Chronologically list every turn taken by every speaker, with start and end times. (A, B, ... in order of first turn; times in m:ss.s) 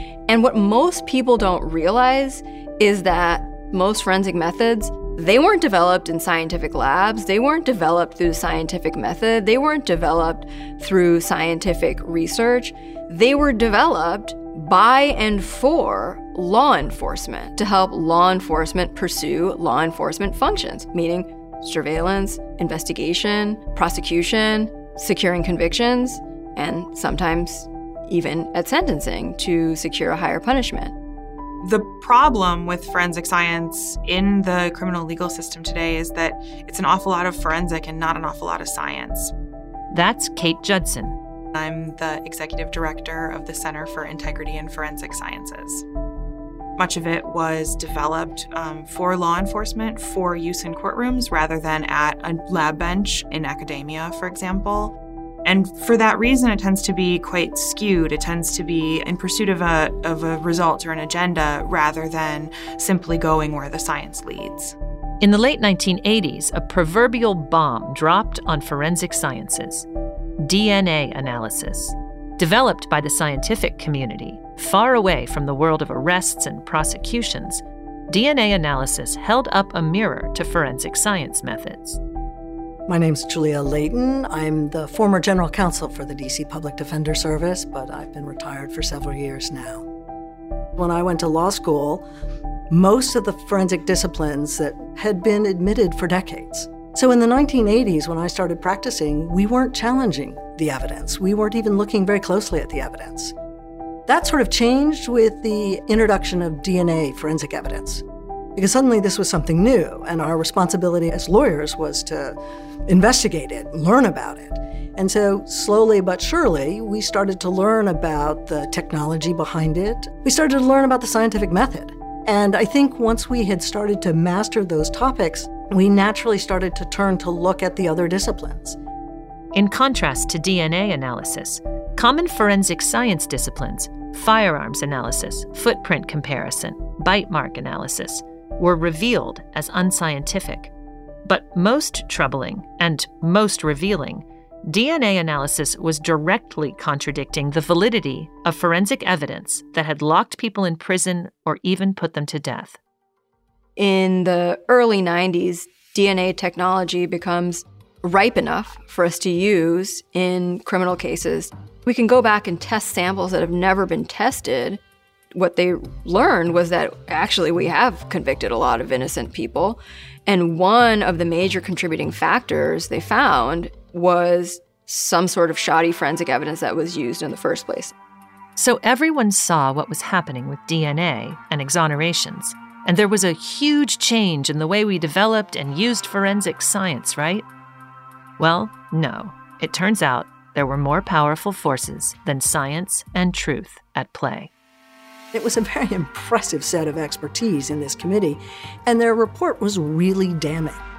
0:00.3-0:30.9 A
0:31.6-0:39.3 B
0:39.9-0:41.2 C
0:41.5-0:45.8 B
0:46.8-1:04.8 B
1:05.2-1:09.8 C
1:10.4-1:22.0 C
1:22.9-1:29.8 D
1:30.8-1:32.1 D
1:32.7-1:43.3 D
1:44.1-1:48.0 D
1:48.6-2:08.8 D
2:09.5-2:20.7 C
2:21.2-2:32.8 C
2:33.8-2:44.8 A
2:45.3-2:57.9 A
2:58.6-3:07.4 C
3:08.4-3:14.5 C
3:15.3-3:20.8 D